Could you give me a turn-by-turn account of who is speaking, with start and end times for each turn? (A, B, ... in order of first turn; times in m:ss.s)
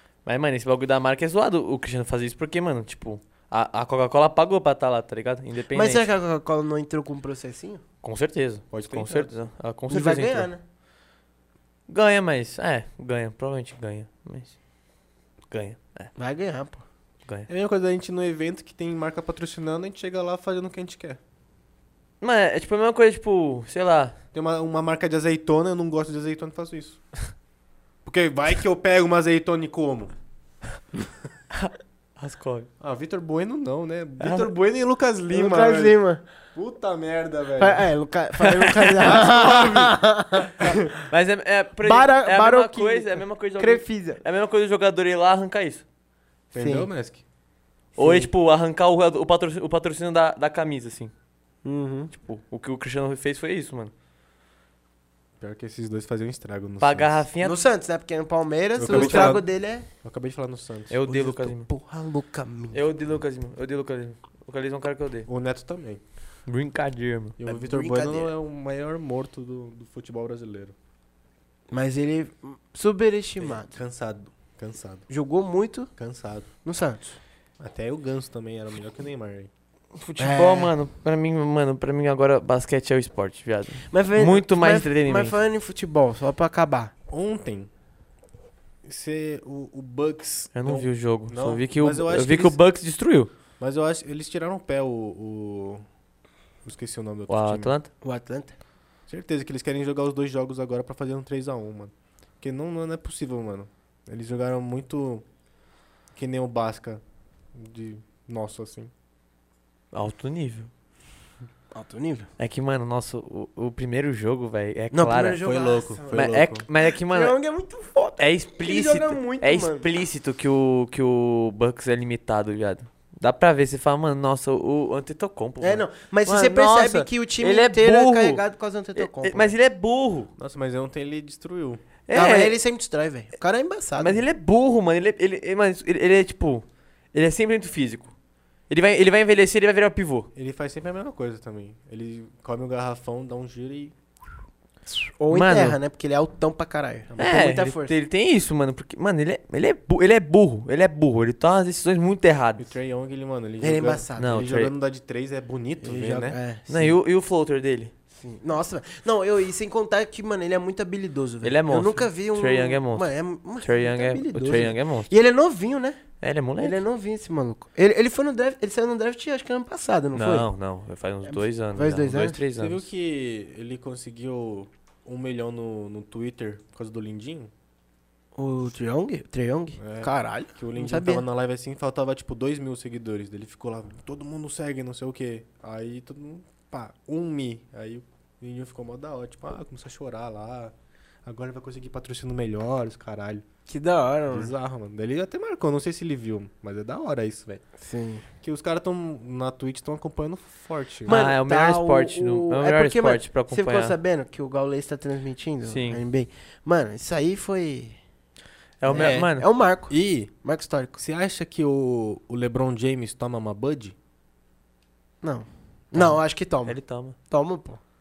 0:00.2-0:06.1 A
0:05.7-0:07.8 B
0:08.0-0:10.5 A
0:08.7-0:09.4 C
0:09.9-0:10.6 B
0:11.9-0:14.5 A
0:15.5-0:16.1 A
0:16.2-0:16.8 B
0:17.5-0:21.2 C
0:22.2-0:24.1 A
0:24.3-0:27.0 C
0:28.0-0:30.1 C
0:31.5-0:32.7 A
0:32.8-0:36.0 C
0:34.2-0:34.5 A
0:35.3-0:36.2 B
0:36.5-0:37.9 C
0:37.6-0:40.8 B
0:38.4-0:39.2 A
0:39.1-0:40.0 C
0:41.0-0:45.8 A
0:41.8-0:44.2 B
0:46.5-0:47.2 C
0:46.5-0:46.9 B
0:48.0-0:48.3 B
0:48.0-0:51.1 A
0:51.6-0:52.1 B
0:52.1-0:53.9 A
0:55.4-0:57.2 C
0:56.8-0:57.6 A
0:57.4-0:59.9 B
0:58.8-0:59.5 C
0:58.9-0:59.3 A
1:00.0-1:01.0 C
1:00.9-1:01.7 A
1:01.0-1:02.8 B
1:02.7-1:05.3 A
1:05.3-1:06.0 C
1:06.5-1:07.4 A
1:07.4-1:10.7 C
1:07.4-1:08.3 B
1:11.7-1:13.7 B
1:13.4-1:15.0 C
1:15.1-1:15.9 B
1:16.0-1:16.5 C
1:16.6-1:17.2 B
1:17.6-1:19.5 C
1:20.0-1:25.4 A
1:20.2-1:20.7 B
1:23.9-1:26.9 B
1:27.1-1:27.7 C
1:28.8-1:32.6 C
1:30.5-1:33.3 A
1:33.6-1:35.8 C
1:36.6-1:37.7 C
1:37.3-1:37.9 A
1:38.0-1:38.5 B
1:39.1-1:45.2 C
1:46.1-1:47.0 C
1:47.5-1:48.9 C
1:49.9-1:50.7 A
1:51.7-1:52.3 B
1:52.4-1:55.4 A
1:54.9-1:56.3 B
1:55.4-1:56.6 C
1:56.1-1:57.3 A
1:56.9-1:59.9 B
1:58.2-2:08.4 A
2:05.6-2:09.5 B
2:09.0-2:10.3 A
2:10.4-2:11.8 C
2:12.1-2:12.6 A
2:12.1-2:14.2 B
2:14.0-2:18.1 A
2:18.7-2:20.3 A
2:20.3-2:23.9 C
2:25.2-2:27.9 B
2:25.3-2:25.8 A
2:27.1-2:27.4 C
2:27.2-2:32.6 A
2:32.6-2:36.4 C
2:33.6-2:34.3 B
2:34.2-2:34.7 A
2:35.8-2:36.9 B
2:36.7-2:37.9 A
2:38.2-2:46.0 B
2:41.4-2:45.1 A
2:46.2-2:46.8 A
2:46.6-2:50.5 B
2:50.1-2:52.8 A
2:51.2-2:52.4 B
2:52.6-2:57.5 C
2:58.4-3:01.2 B
2:59.8-3:10.7 C
3:11.2-3:13.4 C
3:13.7-3:14.5 B
3:14.3-3:17.6 C
3:17.8-3:18.2 B
3:18.4-3:21.2 C
3:21.0-3:28.0 B
3:21.1-3:23.9 A
3:25.7-3:26.0 A
3:28.8-3:29.4 A
3:28.9-3:31.0 B
3:28.9-3:29.2 C
3:29.9-3:30.3 C
3:31.0-3:33.9 C
3:35.2-3:36.8 B
3:36.6-3:37.2 A
3:37.3-3:37.8 B